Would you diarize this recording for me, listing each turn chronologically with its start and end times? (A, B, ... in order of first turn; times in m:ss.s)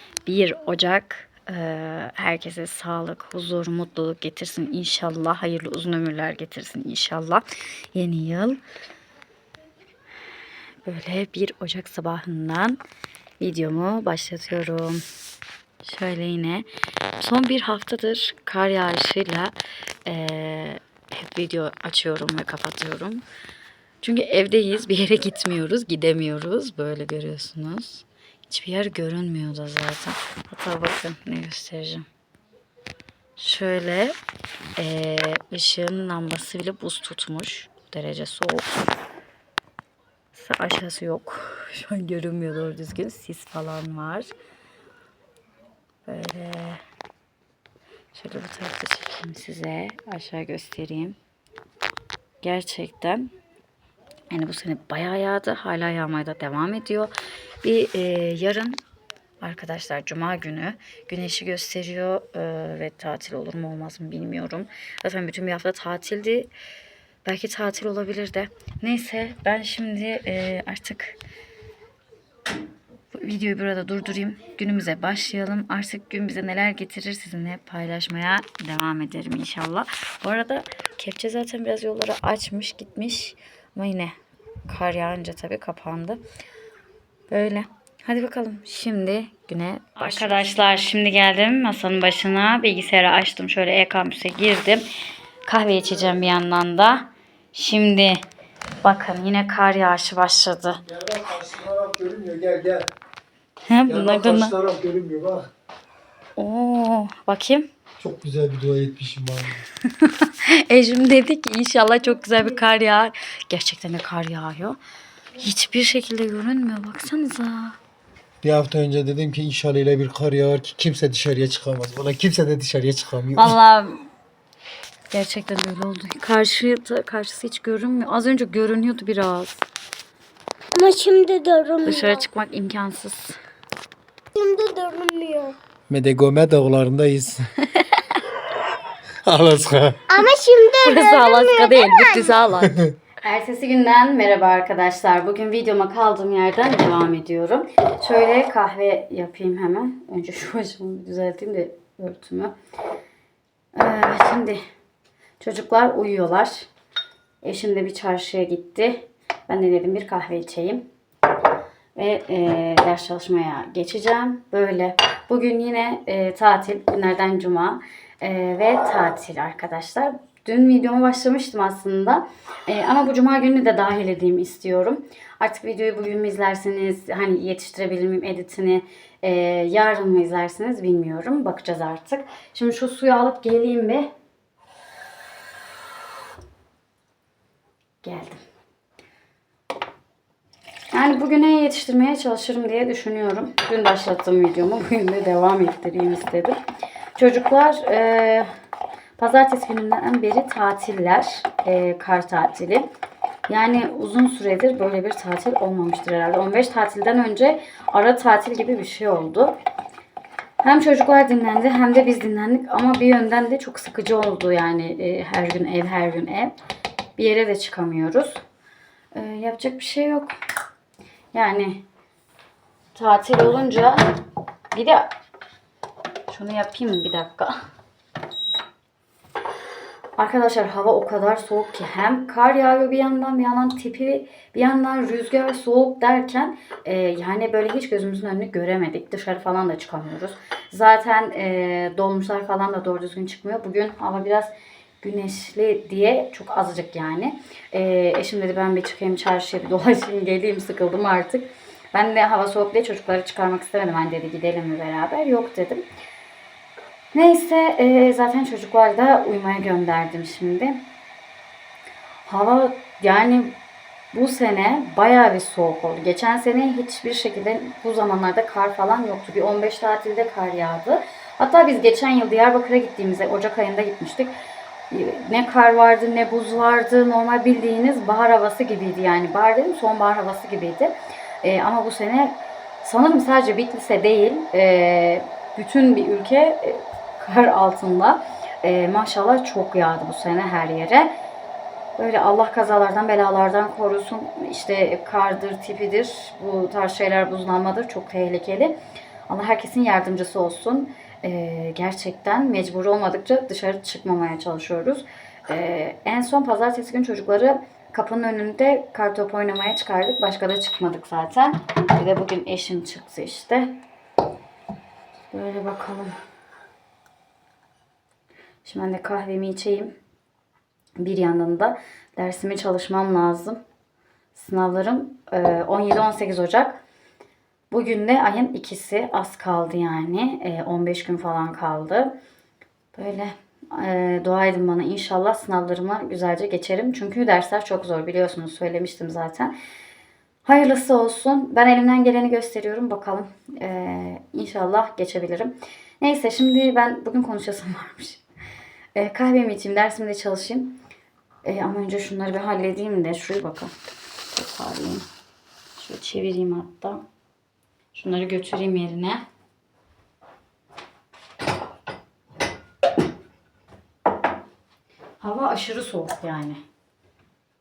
0:00.2-0:08.6 A
0:10.8-0:12.8 A
0:13.4-0:15.0 A
0:15.8-0:16.7 A
0:17.2-0:23.2 A
0:24.0-0:32.1 A
0:33.4-0:34.2 A
0:34.8-0:38.9 A
0:40.3-0:44.3 A
0:46.0-0:46.8 A
0:48.1-0:51.2 A
0:52.4-0:53.3 A
0:54.3-0:58.8 A
0:59.4-1:06.5 A
1:07.2-1:11.2 A
1:13.1-1:24.1 A
1:24.6-1:26.2 A
1:27.3-1:34.9 A
1:35.4-1:38.2 A
1:38.8-1:40.8 A
1:40.9-1:42.9 B
1:43.6-1:44.6 A
1:43.9-1:45.5 B
1:46.4-1:47.7 A
1:48.0-1:49.6 B
1:49.8-1:54.8 A
1:55.4-1:57.8 A
1:58.4-2:03.5 B
2:03.4-2:04.0 A
2:05.1-2:09.6 A
2:10.7-2:12.2 C
2:11.8-2:13.4 A
2:14.3-2:15.6 C
2:15.9-2:17.5 B
2:17.7-2:18.0 A
2:19.2-2:20.0 B
2:20.1-2:22.4 C
2:20.8-2:32.5 A
2:22.6-2:22.9 B
2:33.7-2:34.6 A
2:35.4-2:36.7 A
2:37.4-2:40.9 A
2:42.0-3:04.1 A
3:08.0-3:08.4 A
3:10.9-3:16.6 A
3:17.2-3:18.5 A
3:19.2-3:22.9 A
3:23.5-3:29.6 A
3:30.6-3:36.6 A
3:37.2-3:38.4 A
3:39.1-3:40.3 A
3:41.3-3:41.8 A
3:42.9-3:44.2 A
3:44.7-3:45.1 A
3:46.3-3:47.6 A
3:50.2-4:15.8 A
4:17.1-4:20.8 A
4:22.2-4:23.6 A
4:24.1-4:34.3 A
4:34.9-4:51.1 A
4:52.0-4:58.7 A
4:59.3-5:13.8 A
5:15.3-5:16.2 A
5:18.6-5:19.9 A
5:21.0-5:23.6 A
5:24.3-5:26.8 A
5:27.7-5:32.1 A
5:32.9-5:39.6 A
5:40.4-5:48.2 A
5:48.9-5:50.8 A
5:51.4-5:53.7 A
5:54.3-5:55.1 A
5:55.8-5:57.0 A
5:57.9-5:59.2 A
6:05.2-6:06.6 A